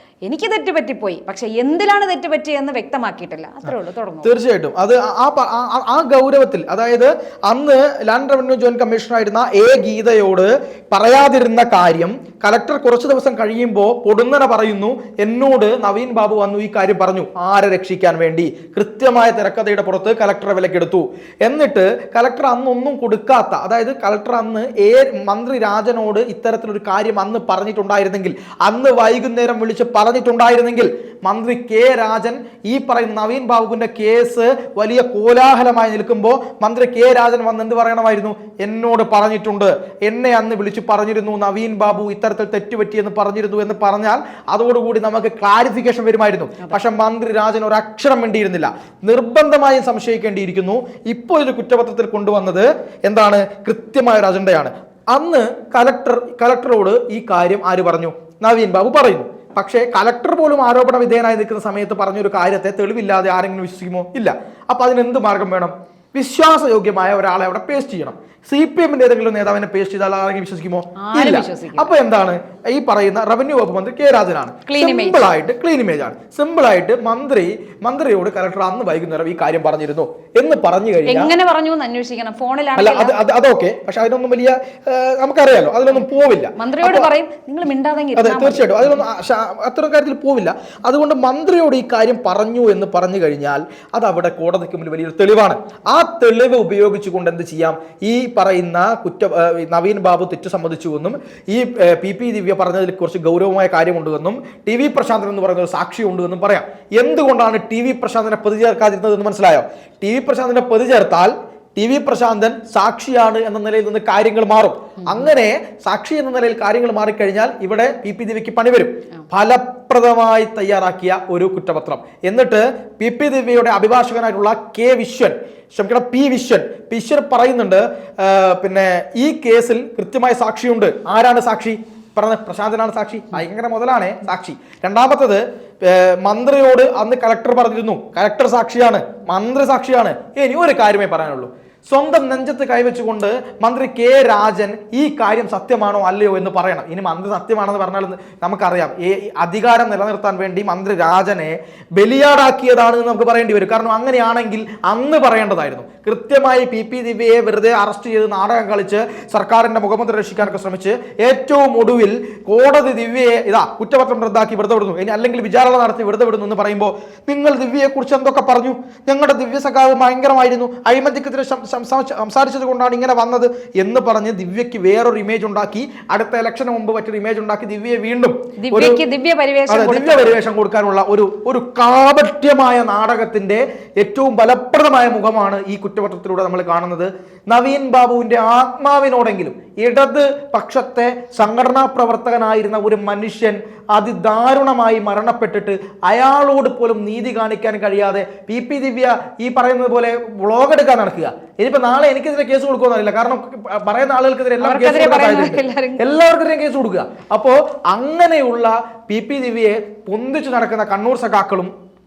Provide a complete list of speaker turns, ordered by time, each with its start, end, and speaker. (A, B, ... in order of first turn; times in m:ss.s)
0:00.2-0:04.3 A
0:04.2-1:21.3 B
1:11.0-1:11.9 A
1:14.6-1:15.2 A
1:21.0-1:23.2 A
1:22.8-1:27.1 B
1:26.6-1:29.0 A
1:28.2-2:59.0 B
2:58.6-3:00.4 A
2:59.7-3:31.7 B
3:24.6-3:26.0 A